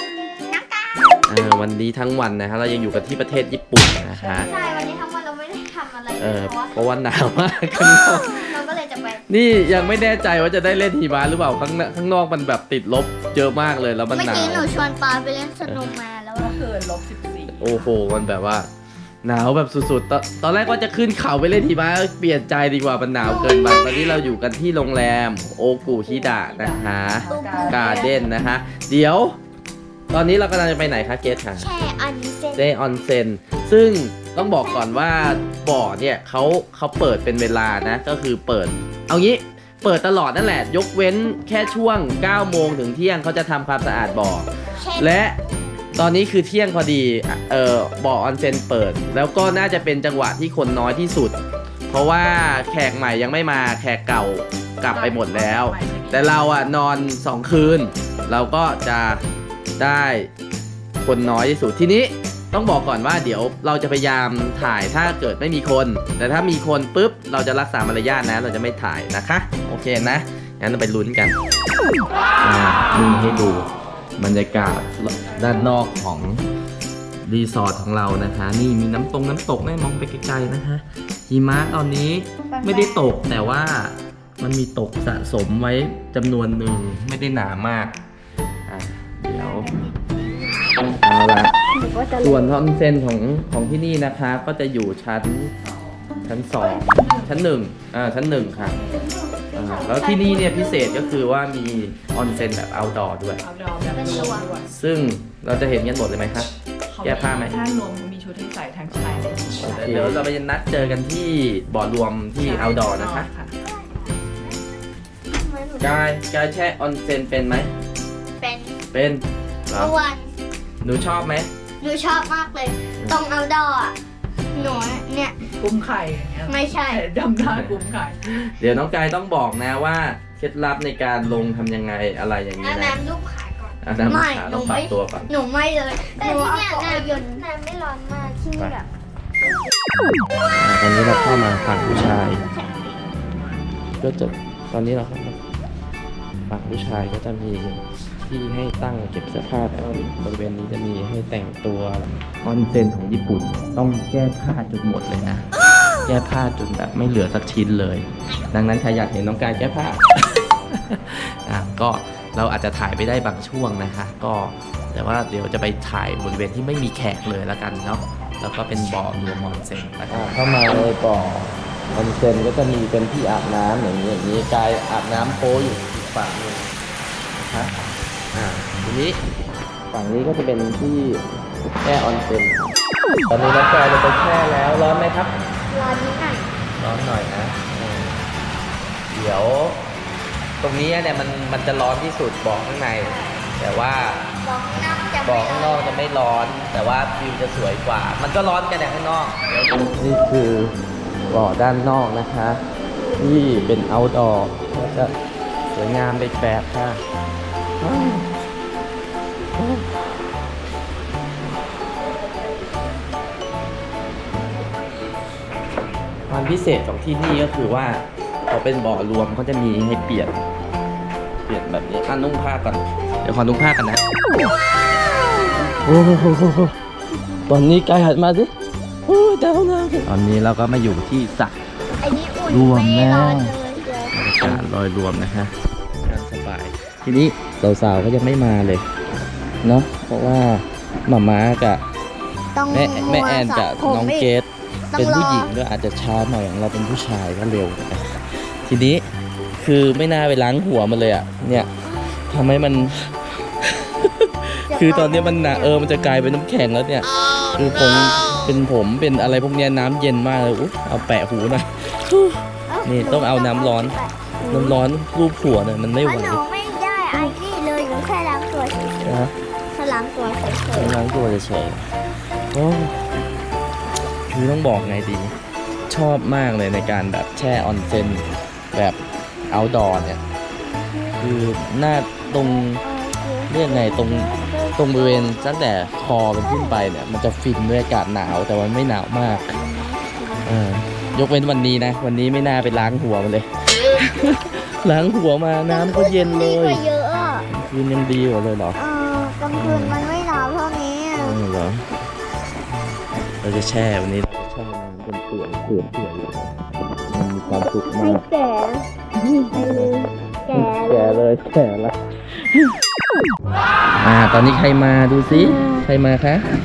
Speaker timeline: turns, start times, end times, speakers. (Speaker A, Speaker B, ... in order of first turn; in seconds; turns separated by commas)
Speaker A: 0.5-0.9, Speaker B: 1.3-4.5, Speaker C: 4.1-4.9, Speaker A: 4.5-6.7, Speaker B: 6.2-8.6, Speaker A: 8.1-9.2, Speaker B: 9.3-14.7, Speaker A: 14.1-16.6, Speaker C: 16.4-18.0, Speaker B: 17.6-18.7, Speaker B: 19.2-29.4, Speaker A: 23.2-24.2, Speaker C: 25.8-28.2, Speaker A: 27.3-28.1, Speaker D: 27.4-28.1, Speaker B: 30.1-31.7, Speaker A: 31.6-32.6, Speaker B: 32.5-45.4, Speaker A: 44.8-45.2, Speaker B: 46.0-51.4, Speaker B: 51.9-59.2, Speaker C: 54.9-56.7, Speaker B: 59.8-60.3, Speaker B: 61.0-71.4, Speaker B: 72.4-76.4, Speaker B: 77.2-88.0, Speaker A: 82.5-83.0, Speaker B: 88.7-89.7, Speaker B: 91.0-91.6, Speaker A: 91.8-92.4, Speaker B: 92.2-95.5, Speaker C: 95.6-96.0, Speaker B: 96.3-98.8, Speaker C: 96.6-97.4, Speaker C: 98.7-99.1, Speaker A: 98.9-101.2, Speaker B: 99.5-103.4, Speaker C: 103.4-104.7, Speaker A: 104.0-104.5, Speaker D: 104.1-104.3, Speaker B: 104.7-107.6, Speaker C: 106.9-110.2, Speaker B: 109.6-113.3, Speaker C: 112.4-113.5, Speaker A: 115.3-116.0, Speaker B: 115.8-117.7, Speaker A: 118.4-118.7, Speaker B: 118.9-120.0, Speaker A: 119.7-120.3, Speaker B: 120.8-121.5, Speaker A: 121.8-124.0, Speaker A: 124.5-125.4, Speaker C: 125.5-128.2, Speaker A: 126.5-127.0, Speaker B: 127.4-133.0, Speaker A: 132.6-137.5, Speaker B: 133.8-135.3, Speaker D: 136.1-138.9, Speaker B: 140.6-142.4, Speaker B: 144.0-145.4, Speaker B: 146.5-155.5, Speaker B: 156.0-160.0, Speaker B: 160.7-176.7, Speaker B: 177.4-177.8, Speaker B: 178.3-179.2, Speaker B: 179.9-181.2, Speaker B: 181.8-182.7, Speaker B: 183.3-185.3, Speaker A: 185.7-186.5, Speaker B: 186.8-188.2, Speaker B: 189.1-189.8, Speaker B: 190.6-194.2, Speaker C: 193.0-193.4, Speaker A: 194.4-195.8, Speaker B: 195.2-200.7, Speaker B: 201.3-202.6, Speaker B: 203.2-205.2, Speaker B: 205.7-207.0, Speaker B: 207.8-208.3, Speaker B: 209.6-209.8, Speaker B: 216.3-220.4, Speaker B: 221.5-224.0, Speaker B: 225.8-226.8, Speaker B: 227.5-228.5, Speaker B: 229.1-231.6, Speaker A: 232.0-234.6, Speaker B: 232.5-233.6, Speaker B: 234.1-235.5, Speaker B: 236.0-238.9, Speaker B: 239.6-241.8, Speaker A: 242.6-244.3, Speaker B: 242.7-249.1, Speaker A: 244.9-245.5, Speaker B: 249.6-251.7, Speaker B: 252.3-266.4, Speaker A: 254.7-255.8, Speaker A: 262.7-264.8, Speaker A: 266.0-269.1, Speaker B: 269.0-269.3, Speaker A: 269.7-271.0, Speaker B: 270.7-271.9, Speaker B: 272.5-273.1, Speaker B: 274.3-275.3, Speaker B: 275.9-279.0, Speaker B: 279.5-280.2, Speaker A: 280.6-281.2, Speaker B: 281.2-282.8, Speaker A: 282.4-285.8, Speaker B: 283.5-289.6, Speaker A: 286.4-286.8, Speaker A: 289.3-290.5, Speaker B: 290.4-296.8, Speaker A: 295.7-297.5, Speaker B: 297.5-298.8, Speaker A: 298.8-301.4, Speaker B: 299.5-300.0, Speaker B: 301.2-301.9, Speaker B: 303.4-306.5, Speaker B: 307.1-308.2, Speaker A: 307.5-308.9, Speaker B: 309.2-309.9, Speaker A: 309.5-311.2, Speaker B: 310.5-312.8, Speaker B: 314.0-316.5, Speaker A: 315.4-315.8